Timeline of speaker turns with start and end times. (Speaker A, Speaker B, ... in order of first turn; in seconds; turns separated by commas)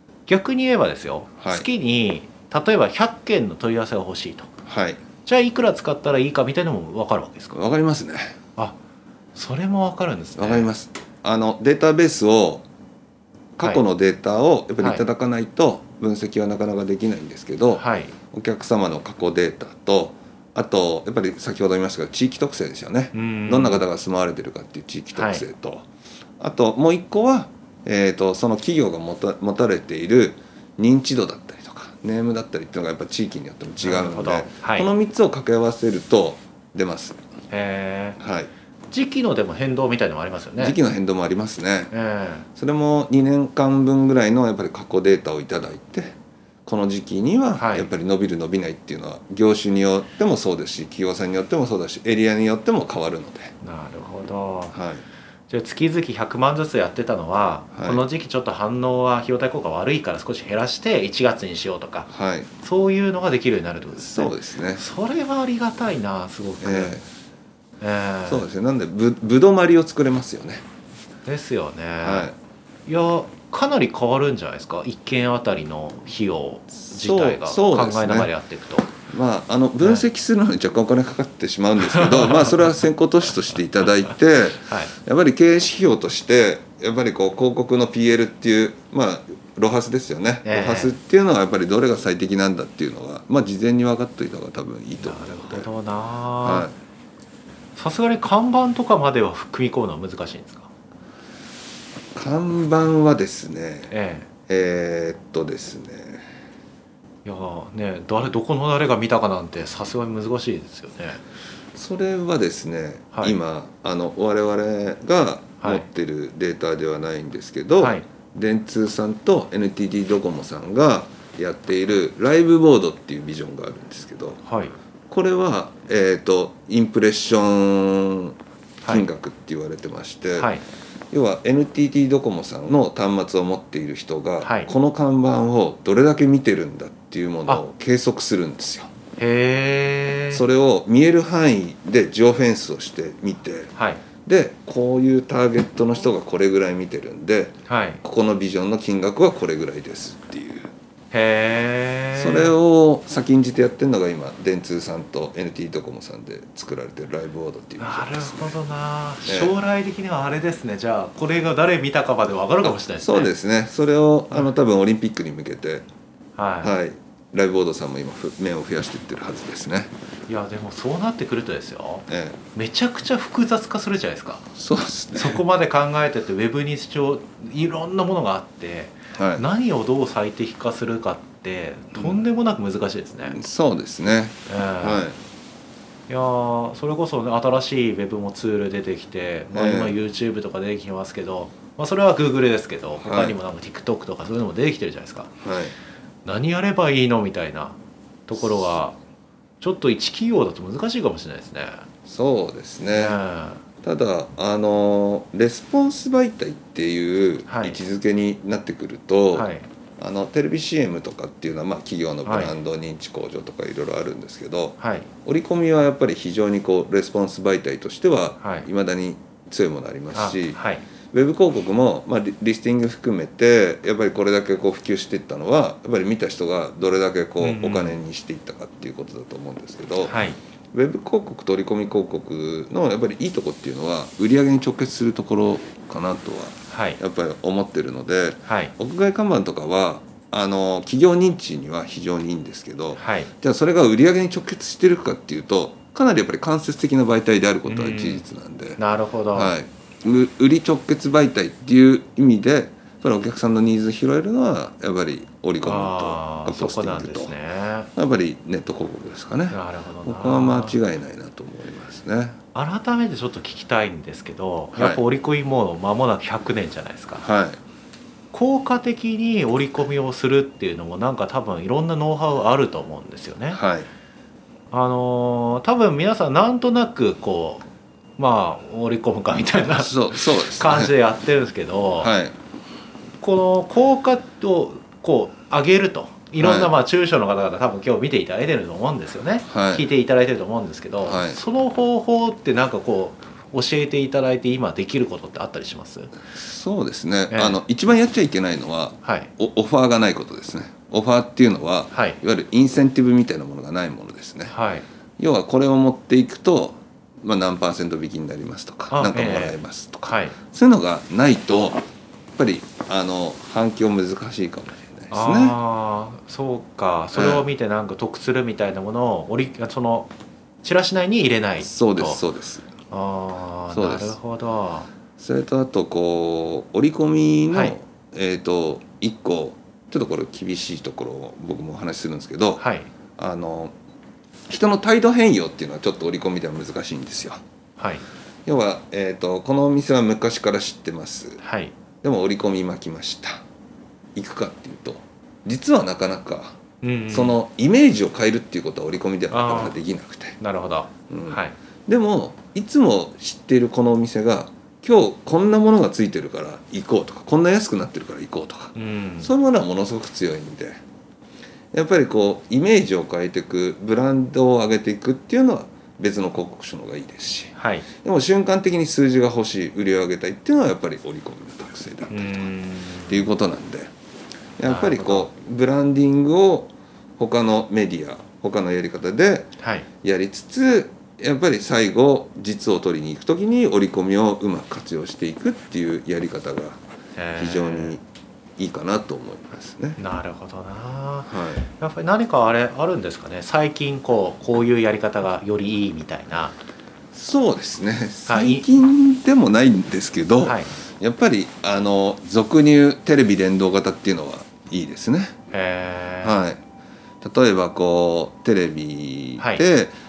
Speaker A: 0.3-4.5, Speaker B: 1.4-1.7, Speaker B: 4.7-5.0, Speaker A: 5.2-7.6, Speaker B: 7.5-8.3, Speaker A: 9.3-10.7, Speaker B: 10.4-12.6, Speaker B: 13.6-25.9, Speaker A: 14.8-15.0, Speaker A: 17.7-18.1, Speaker A: 23.1-23.9, Speaker A: 25.1-25.4, Speaker B: 26.4-37.2, Speaker A: 33.8-34.9, Speaker A: 37.5-38.2, Speaker B: 38.2-38.5, Speaker A: 38.9-40.8, Speaker B: 40.6-41.9, Speaker A: 41.9-42.5, Speaker B: 42.5-46.1, Speaker B: 46.6-53.5, Speaker A: 47.5-47.9, Speaker A: 53.6-54.8, Speaker B: 54.7-55.0, Speaker A: 55.5-67.0, Speaker B: 57.7-58.0, Speaker B: 62.1-62.5, Speaker B: 64.0-64.8, Speaker B: 66.6-67.0, Speaker A: 67.8-68.4, Speaker B: 68.3-70.6, Speaker A: 71.2-72.3, Speaker B: 72.0-72.3, Speaker A: 72.8-78.9, Speaker B: 76.8-78.3, Speaker B: 79.1-95.7, Speaker A: 81.8-82.7, Speaker A: 84.7-84.9, Speaker A: 90.4-91.0, Speaker A: 95.0-96.7, Speaker B: 96.4-96.7, Speaker A: 97.7-100.7, Speaker B: 102.1-103.9, Speaker A: 103.9-104.3, Speaker B: 104.5-106.2, Speaker A: 107.2-111.2, Speaker B: 111.7-124.4, Speaker A: 113.1-113.4, Speaker A: 115.6-115.9, Speaker A: 117.8-118.0, Speaker A: 124.4-124.8, Speaker B: 125.1-128.3, Speaker A: 128.8-129.1, Speaker B: 128.9-130.5, Speaker A: 130.3-130.6, Speaker B: 131.1-138.9, Speaker A: 134.4-134.7, Speaker A: 139.2-140.5, Speaker B: 140.3-143.7, Speaker A: 143.7-144.0, Speaker B: 144.2-150.7, Speaker A: 147.7-148.0, Speaker A: 151.1-152.5, Speaker B: 152.1-158.6, Speaker A: 157.8-163.3, Speaker B: 159.2-159.5, Speaker B: 162.6-165.8, Speaker A: 166.3-166.7, Speaker B: 166.6-169.9, Speaker A: 170.3-174.4, Speaker B: 172.1-172.4, Speaker B: 174.5-175.4, Speaker A: 175.1-183.4, Speaker B: 179.1-179.4, Speaker B: 181.9-182.2, Speaker B: 183.3-185.2, Speaker A: 184.5-185.1, Speaker A: 186.1-195.3, Speaker B: 189.5-190.0, Speaker B: 193.0-193.4, Speaker B: 195.4-195.7, Speaker A: 196.2-197.8, Speaker A: 198.3-199.0, Speaker B: 198.3-198.8, Speaker A: 199.6-201.8, Speaker B: 202.1-203.2, Speaker A: 202.9-203.6, Speaker B: 203.8-209.5, Speaker A: 207.5-207.8, Speaker A: 209.3-209.7, Speaker B: 210.0-220.6, Speaker A: 212.2-212.6, Speaker A: 214.8-215.1, Speaker A: 218.4-218.7, Speaker A: 220.1-220.8, Speaker B: 221.1-230.1, Speaker A: 227.4-228.0, Speaker A: 230.0-230.4, Speaker B: 230.7-248.8, Speaker A: 236.7-237.0, Speaker A: 238.4-238.7, Speaker A: 242.9-243.3, Speaker A: 247.7-248.2, Speaker A: 248.8-249.6, Speaker B: 249.3-257.3, Speaker A: 255.6-257.9, Speaker B: 257.9-262.4, Speaker A: 259.5-260.8, Speaker A: 262.5-267.2, Speaker B: 264.7-265.0, Speaker B: 267.2-267.6, Speaker A: 268.3-273.6, Speaker B: 273.5-273.9, Speaker A: 274.7-277.6, Speaker A: 278.2-282.1, Speaker B: 279.8-280.9, Speaker B: 282.0-282.3, Speaker A: 283.2-296.1, Speaker B: 286.4-286.7, Speaker B: 289.5-289.9, Speaker B: 291.0-291.4, Speaker B: 296.3-304.5, Speaker A: 297.3-297.6, Speaker A: 299.0-299.3, Speaker A: 301.9-302.2, Speaker A: 304.5-304.9, Speaker B: 305.2-311.8, Speaker A: 308.9-310.4, Speaker B: 312.4-315.6, Speaker A: 315.1-322.2, Speaker B: 317.1-317.4, Speaker B: 321.6-322.7, Speaker A: 322.9-324.9, Speaker B: 323.7-324.1, Speaker B: 325.2-332.6, Speaker A: 327.5-327.8, Speaker A: 332.6-332.9, Speaker B: 333.2-333.7, Speaker B: 334.5-337.4, Speaker A: 337.8-338.0, Speaker B: 338.4-341.4, Speaker A: 341.4-341.7, Speaker B: 342.0-343.4, Speaker B: 344.1-346.5, Speaker A: 346.8-347.4, Speaker B: 347.1-350.4, Speaker A: 349.3-349.8, Speaker A: 350.4-351.6, Speaker B: 351.1-360.8, Speaker A: 358.7-359.3, Speaker B: 361.7-372.5, Speaker A: 367.5-367.9, Speaker A: 372.1-373.3, Speaker B: 373.1-373.9, Speaker B: 374.6-386.8, Speaker A: 374.6-375.3, Speaker A: 379.6-379.9, Speaker A: 387.1-388.0, Speaker B: 387.4-388.0, Speaker B: 388.6-390.0, Speaker A: 390.0-396.6, Speaker B: 391.3-391.7, Speaker B: 397.1-405.3, Speaker A: 398.3-398.7, Speaker A: 400.4-400.7, Speaker A: 405.5-406.4, Speaker B: 406.2-406.6, Speaker B: 407.2-409.9, Speaker A: 409.4-409.6